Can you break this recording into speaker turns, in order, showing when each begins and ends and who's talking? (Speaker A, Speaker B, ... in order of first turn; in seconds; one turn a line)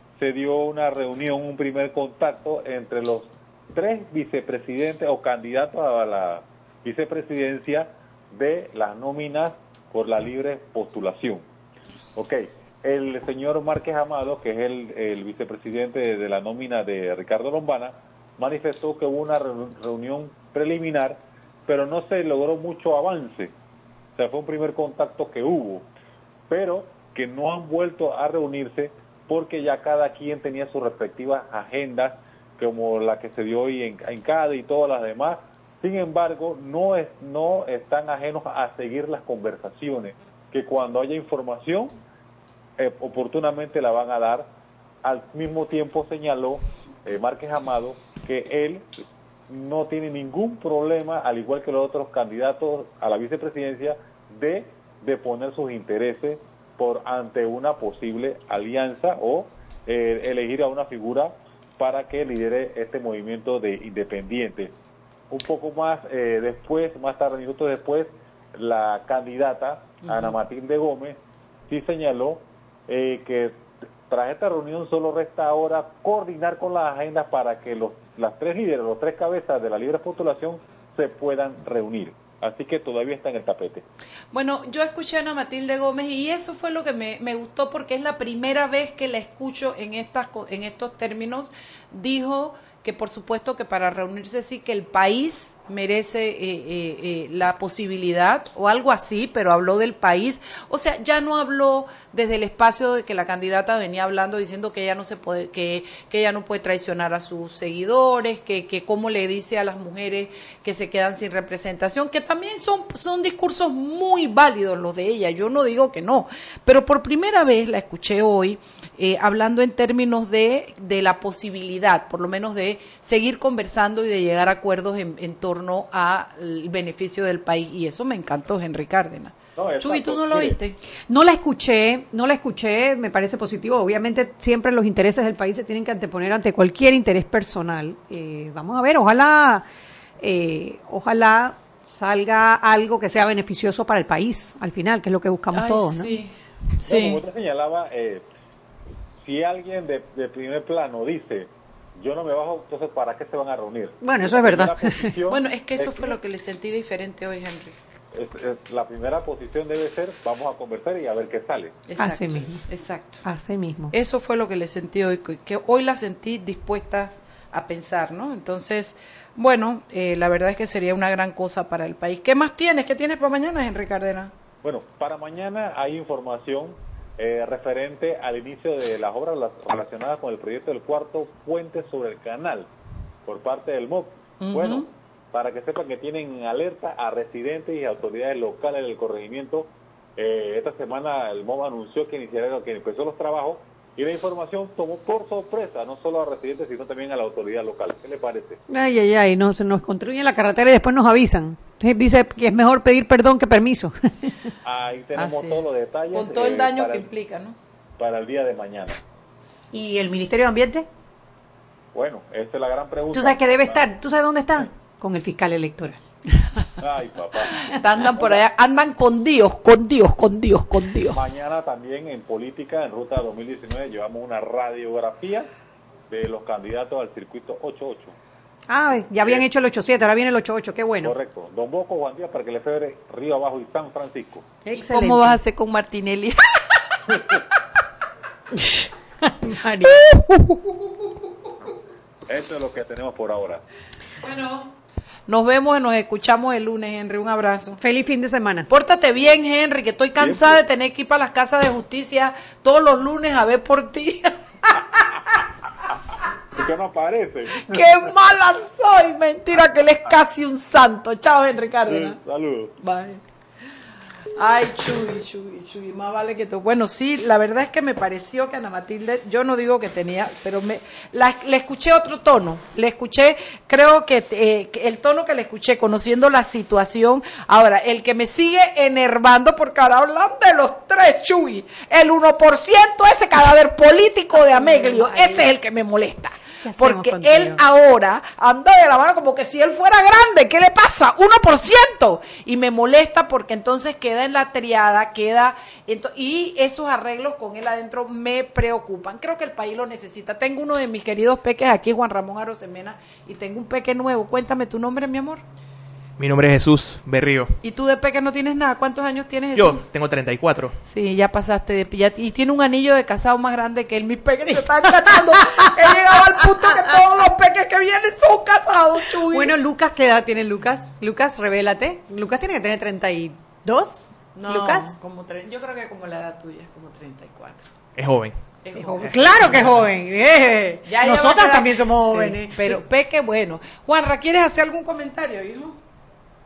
Speaker A: 0.2-11.4
Speaker A: 12.2-23.5
Speaker A: 24.2-25.9
Speaker A: 26.5-41.9
Speaker A: 42.8-44.5
Speaker A: 45.0-48.9
Speaker A: 49.5-64.7
Speaker A: 65.3-83.8
Speaker B: 70.0-70.3
Speaker B: 84.3-130.8
Speaker A: 129.6-130.6
Speaker C: 131.1-139.6
Speaker C: 140.2-146.2
Speaker B: 145.5-146.3
Speaker B: 146.8-147.2
Speaker A: 146.8-148.2
Speaker A: 149.2-156.2
Speaker C: 154.0-155.2
Speaker B: 155.3-157.8
Speaker A: 158.1-161.8
Speaker B: 161.9-163.2
Speaker C: 162.0-162.6
Speaker C: 163.2-163.9
Speaker B: 163.9-174.3
Speaker A: 174.6-182.7
Speaker A: 183.3-198.6
Speaker B: 184.4-184.8
Speaker C: 198.7-204.3
Speaker A: 204.7-207.1
Speaker B: 205.2-205.6
Speaker B: 206.1-207.6
Speaker A: 208.0-208.9
Speaker C: 209.7-210.8
Speaker A: 211.9-213.9
Speaker C: 213.1-216.0
Speaker A: 216.8-217.5
Speaker B: 217.7-221.2
Speaker A: 221.1-225.5
Speaker A: 226.1-228.2
Speaker C: 228.7-231.1
Speaker A: 231.0-234.4
Speaker C: 234.6-235.4
Speaker B: 234.7-236.4
Speaker C: 238.6-240.1
Speaker B: 239.9-241.1
Speaker A: 242.3-243.6
Speaker B: 244.2-244.7
Speaker B: 245.3-247.8
Speaker C: 247.8-248.7
Speaker B: 248.7-254.8
Speaker A: 250.2-250.6
Speaker A: 256.6-257.8
Speaker B: 257.6-262.2
Speaker A: 261.9-262.7
Speaker B: 262.8-263.2
Speaker B: 264.4-305.4
Speaker C: 284.4-285.4
Speaker C: 286.6-287.6
Speaker D: 306.2-307.6
Speaker B: 307.6-309.8
Speaker D: 309.5-310.8
Speaker B: 310.9-319.5
Speaker C: 315.0-316.9
Speaker C: 319.3-324.9
Speaker B: 324.4-327.6
Speaker D: 328.0-328.3
Speaker B: 328.6-329.1
Speaker C: 328.8-332.8
Speaker D: 329.0-329.8
Speaker B: 330.9-335.8